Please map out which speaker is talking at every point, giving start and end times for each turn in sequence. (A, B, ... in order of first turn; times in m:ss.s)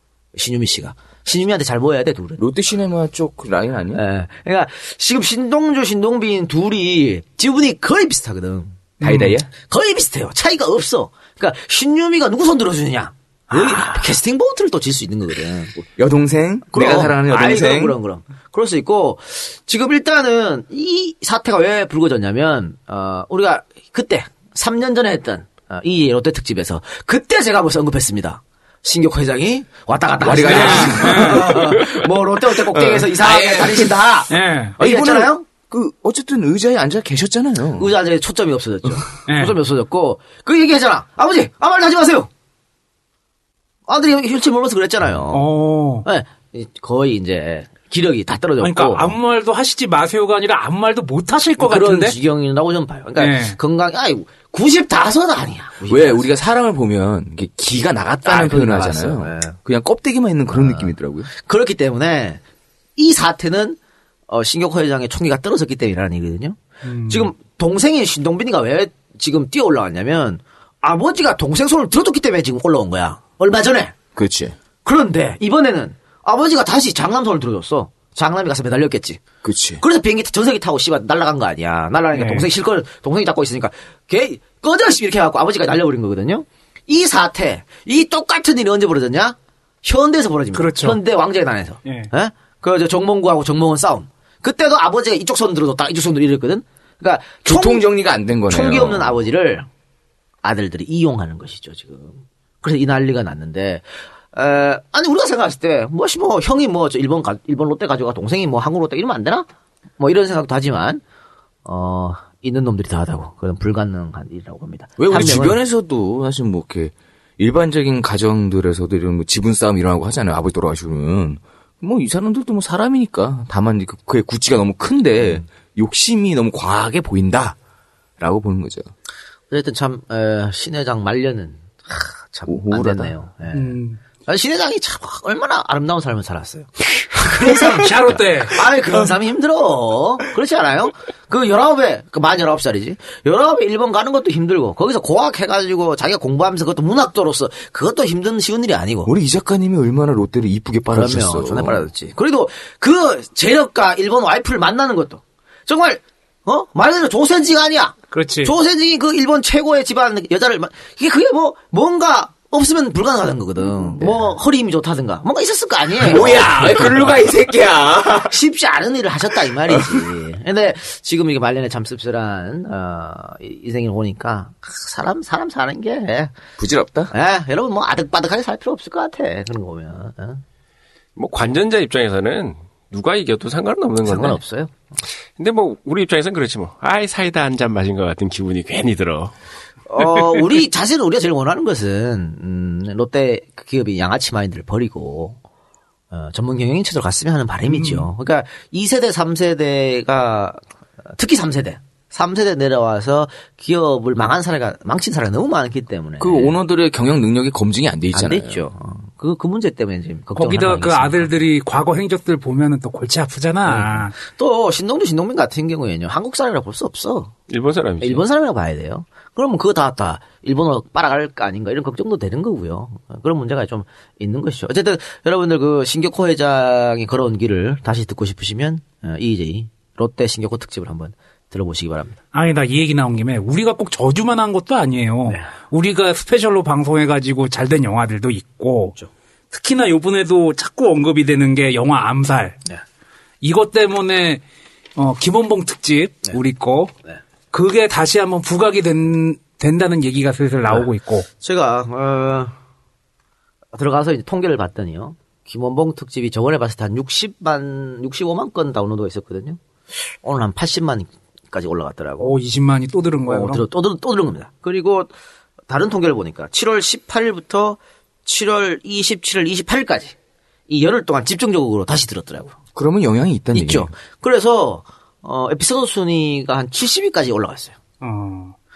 0:00.4-0:02.4 A
0:02.4-0:04.0 B
0:03.9-0:08.8 A
0:09.0-0:09.5 B
0:09.0-0:09.3 C
0:09.6-0:15.8 A
0:15.8-0:17.9 B
0:16.7-0:35.4 A
0:30.2-0:31.8 B
0:30.4-0:31.6 C
0:32.7-0:33.9 B
0:34.3-0:34.7 C
0:34.8-0:37.9 B
0:37.8-0:42.3 A
0:39.3-0:39.6 C
0:43.9-0:45.5 A
0:45.3-0:46.0 C
0:46.0-0:49.1 A
0:48.6-0:52.2 C
0:51.6-0:56.2 A
0:53.2-0:53.6 C
0:55.8-1:01.3 B
0:58.2-0:59.6 A
1:00.5-1:02.4 A
1:03.0-1:03.8 A
1:04.3-1:13.9 A
1:06.8-1:07.3 C
1:14.1-1:14.6 B
1:14.8-1:19.2 A
1:19.4-1:19.8 B
1:19.8-1:37.9 A
1:22.1-1:22.4 C
1:30.5-1:31.0 C
1:31.8-1:32.1 C
1:37.4-1:39.2 B
1:38.5-1:39.7 A
1:40.4-1:49.5 A
1:50.0-1:51.0 A
1:51.6-1:55.6 A
1:55.1-2:07.6 B
2:08.2-2:08.9 B
2:09.5-2:29.1 A
2:12.4-2:13.1 B
2:13.5-2:14.0 C
2:17.2-2:19.0 C
2:29.0-2:31.9 B
2:30.9-2:47.1 A
2:38.1-2:38.5 C
2:46.0-2:48.3 B
2:48.2-2:56.3 A
2:56.6-2:57.1 B
2:57.1-3:00.4 A
3:01.2-3:04.4 D
3:04.0-3:04.7 A
3:05.4-3:09.3 D
3:09.9-3:15.4 A
3:16.1-3:20.6 A
3:17.7-3:18.1 C
3:21.2-3:26.5 A
3:26.2-3:28.7 B
3:28.1-3:31.3 A
3:30.3-3:34.1 C
3:33.6-3:37.3 A
3:37.5-3:38.2 D
3:38.0-3:52.2 A
3:52.3-3:59.0 C
3:59.5-4:02.6 C
4:03.4-4:04.4 C
4:05.0-4:06.9 C
4:07.5-4:11.3 C
4:11.4-4:12.5 A
4:13.7-4:19.6 A
4:20.1-4:22.3 A
4:22.2-4:23.6 C
4:23.3-4:25.1 A
4:25.7-4:30.1 A
4:30.7-4:32.5 A
4:32.7-4:33.9 B
4:33.5-4:37.7 A
4:38.0-4:38.5 C